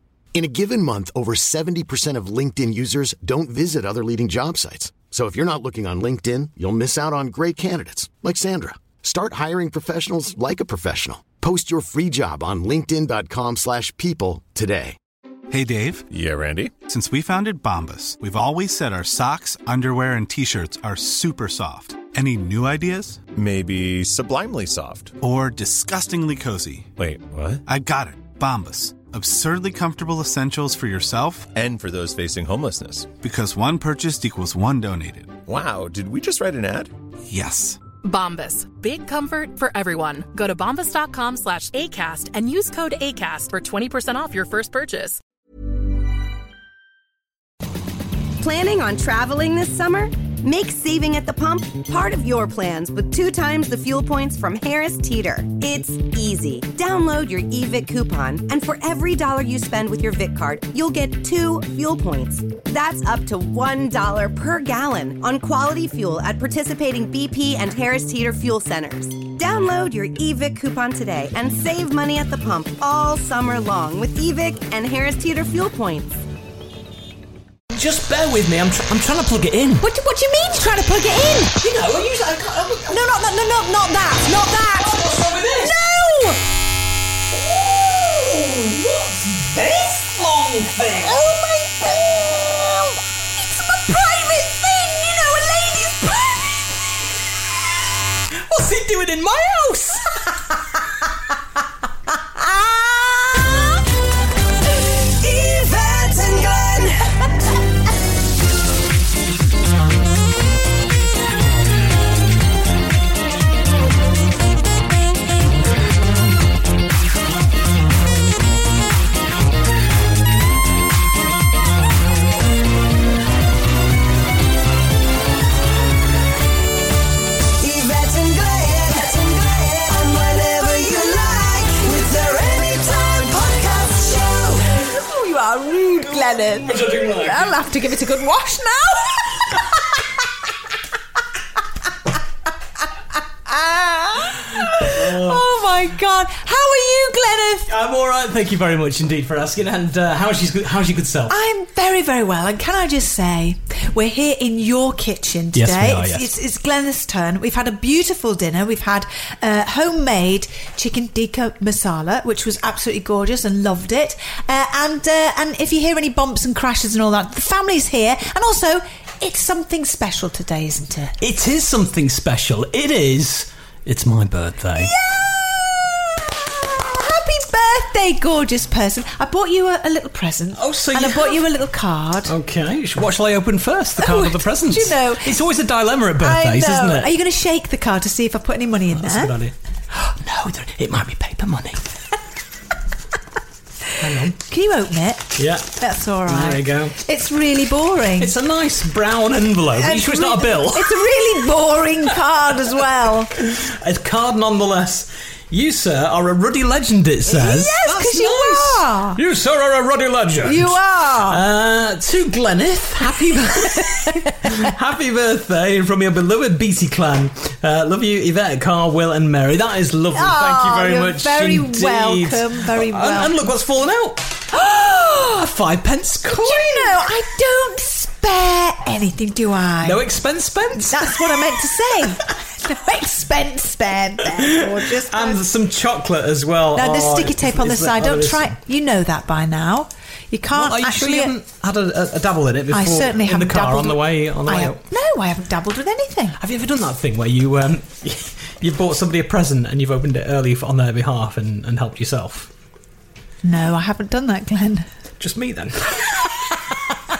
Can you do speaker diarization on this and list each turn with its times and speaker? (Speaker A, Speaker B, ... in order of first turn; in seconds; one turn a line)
Speaker A: 0.3-14.9
Speaker B: 15.5-16.0
Speaker C: 16.1-16.8
Speaker B: 16.8-23.2
Speaker C: 23.3-25.2
Speaker B: 25.2-26.9
Speaker C: 27.0-27.6
Speaker B: 27.6-31.5
Speaker C: 31.5-33.1
Speaker B: 33.2-35.4
Speaker C: 35.5-36.9
Speaker B: 37.3-37.8
Speaker D: 38.0-45.2
Speaker E: 48.4-76.2
Speaker F: 77.7-79.8
Speaker G: 79.8-81.6
Speaker F: 81.5-83.0
Speaker G: 82.9-85.0
Speaker F: 84.7-85.8
Speaker G: 85.6-86.4
Speaker F: 87.5-91.3
Speaker G: 91.0-92.9
Speaker G: 93.5-96.3
Speaker F: 98.5-100.2
Speaker E: 105.2-106.9
Speaker E: 127.6-134.6
Speaker G: 134.7-139.8
Speaker F: 136.0-137.6
Speaker G: 143.5-147.7
Speaker F: 144.5-145.4
Speaker F: 147.7-151.3
Speaker G: 151.3-171.2
Speaker F: 155.5-156.3
Speaker F: 171.2-174.9
Speaker G: 174.8-182.3
Speaker F: 180.5-181.5
Speaker F: 182.3-187.1
Speaker G: 184.0-185.4
Speaker G: 186.2-189.3
Speaker F: 188.9-191.8
Speaker F: 194.0-194.4
Speaker G: 194.3-198.3
Speaker F: 195.3-195.7
Speaker F: 196.2-196.9
Speaker F: 198.2-201.2
Speaker G: 199.8-203.3
Speaker F: 203.4-227.1
Speaker G: 207.3-209.2
Speaker G: 210.4-211.4
Speaker G: 213.0-214.7
Speaker G: 220.1-223.4
Speaker G: 226.3-230.0
Speaker F: 229.8-232.1
Speaker G: 230.8-235.4
Speaker F: 234.3-238.6
Speaker G: 236.7-241.3
Speaker F: 240.5-244.8
Speaker G: 242.7-246.4
Speaker F: 246.4-252.5
Speaker G: 253.4-254.9
Speaker F: 255.2-256.3